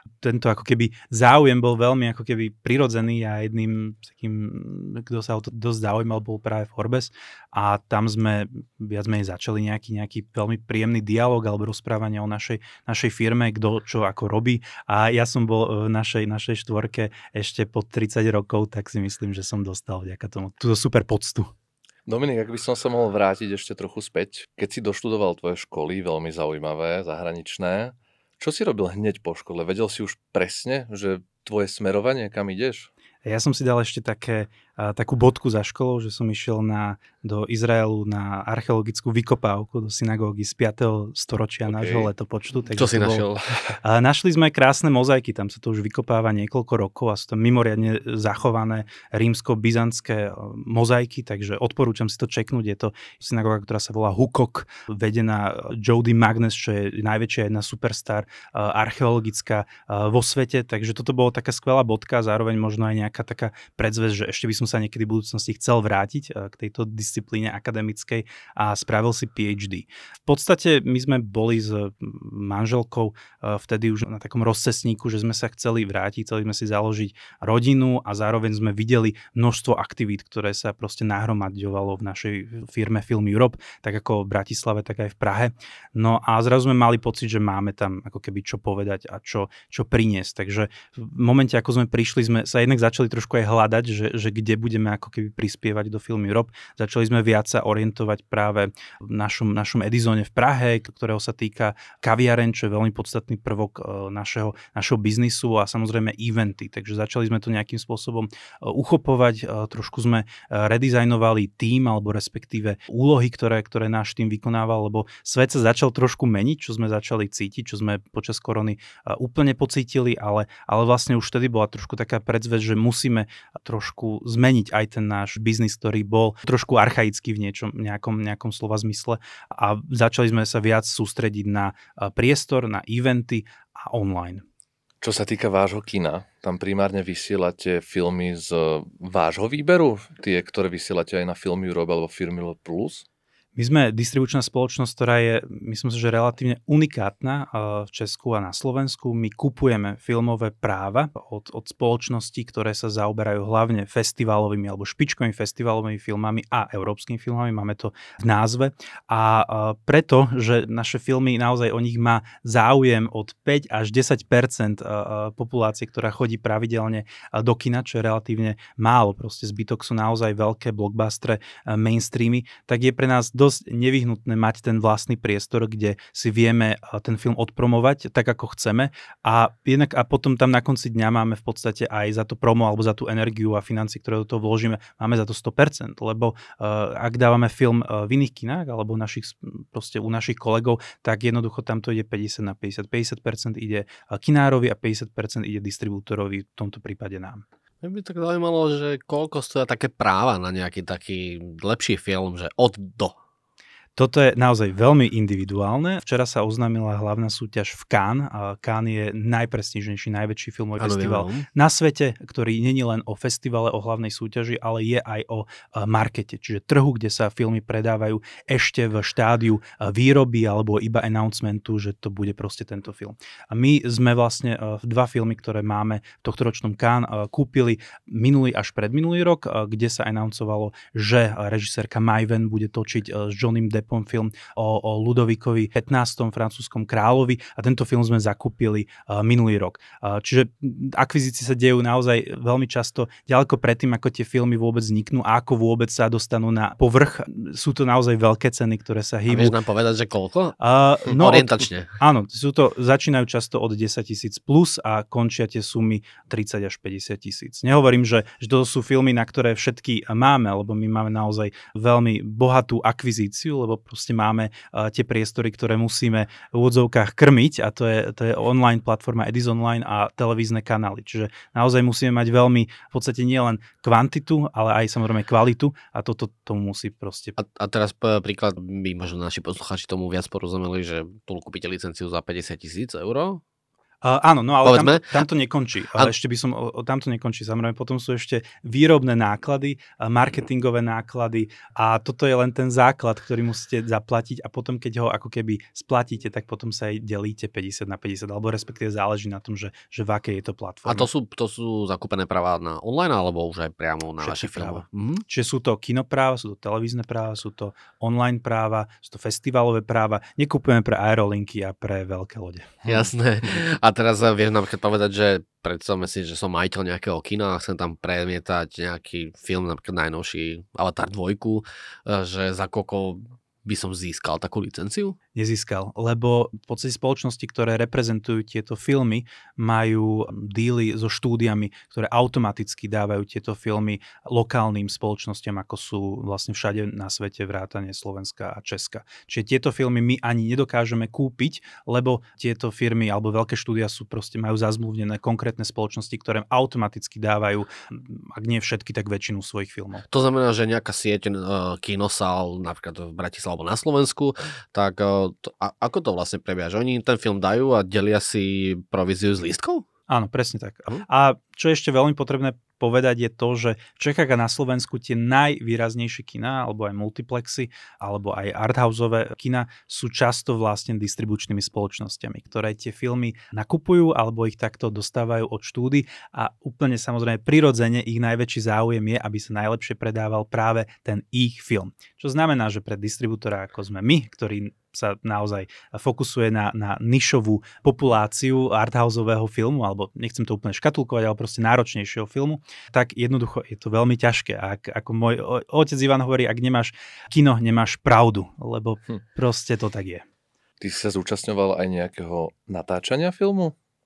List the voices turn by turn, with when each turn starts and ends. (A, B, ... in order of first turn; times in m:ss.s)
0:00.2-0:21.5 A
0:22.1-0:32.9 B
0:33.2-0:43.3 A
0:41.7-0:42.1 B
0:42.8-0:43.4 C
0:43.8-2:14.4 A
2:15.0-2:23.0 B
2:23.6-3:17.4 A
3:17.8-3:23.2 C
3:24.0-4:09.6 A
3:30.8-3:31.4 C
4:09.3-4:11.9 C
4:10.6-4:37.4 A
4:37.4-4:43.4 C
4:44.0-5:01.1 A
4:44.6-4:45.2 C
5:00.8-5:05.2 C
5:04.2-5:12.8 A
5:12.8-5:25.2 C
5:25.4-5:50.1 A
5:50.1-5:59.9 C
6:00.1-6:40.2 A
6:40.8-6:43.8 B